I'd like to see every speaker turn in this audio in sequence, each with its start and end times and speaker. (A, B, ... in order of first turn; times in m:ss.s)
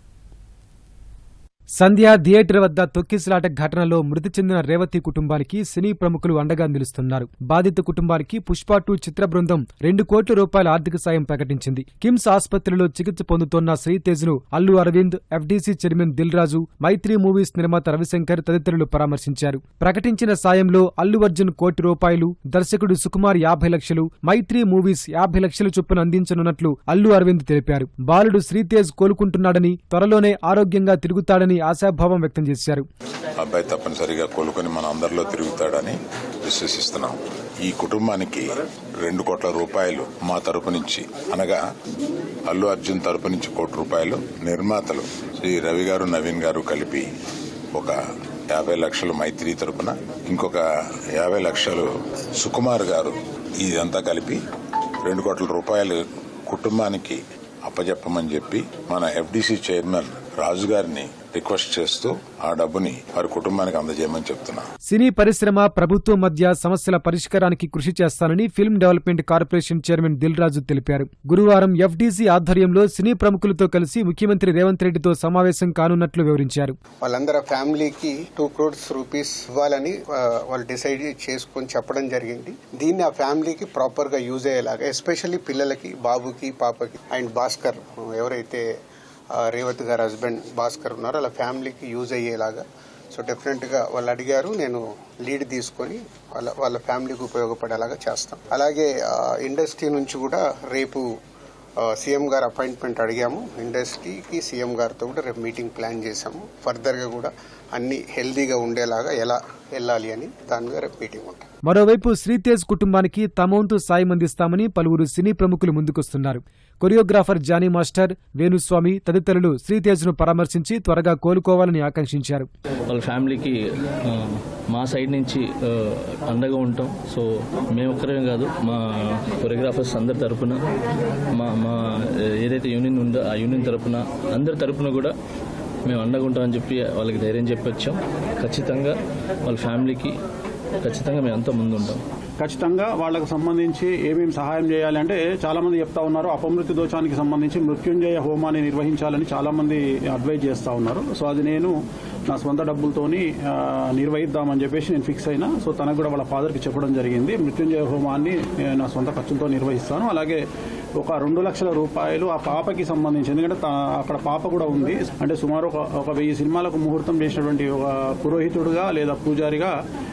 0:01.8-0:32.8 A
0:33.4-0:41.6 B
0:42.5-0:47.1 B
0:48.5-0:50.6 B
0:51.2-0:54.4 B
0:55.0-1:04.6 B
1:04.9-1:16.8 A
1:17.0-1:28.6 C
1:29.4-1:41.1 C
1:41.8-1:51.5 C
1:51.6-2:02.5 A
2:02.9-2:10.6 D
2:11.3-2:15.2 D
2:15.9-2:20.1 D
2:20.8-2:22.0 D
2:22.4-2:31.7 E
2:32.3-2:40.4 E
2:41.0-2:49.7 E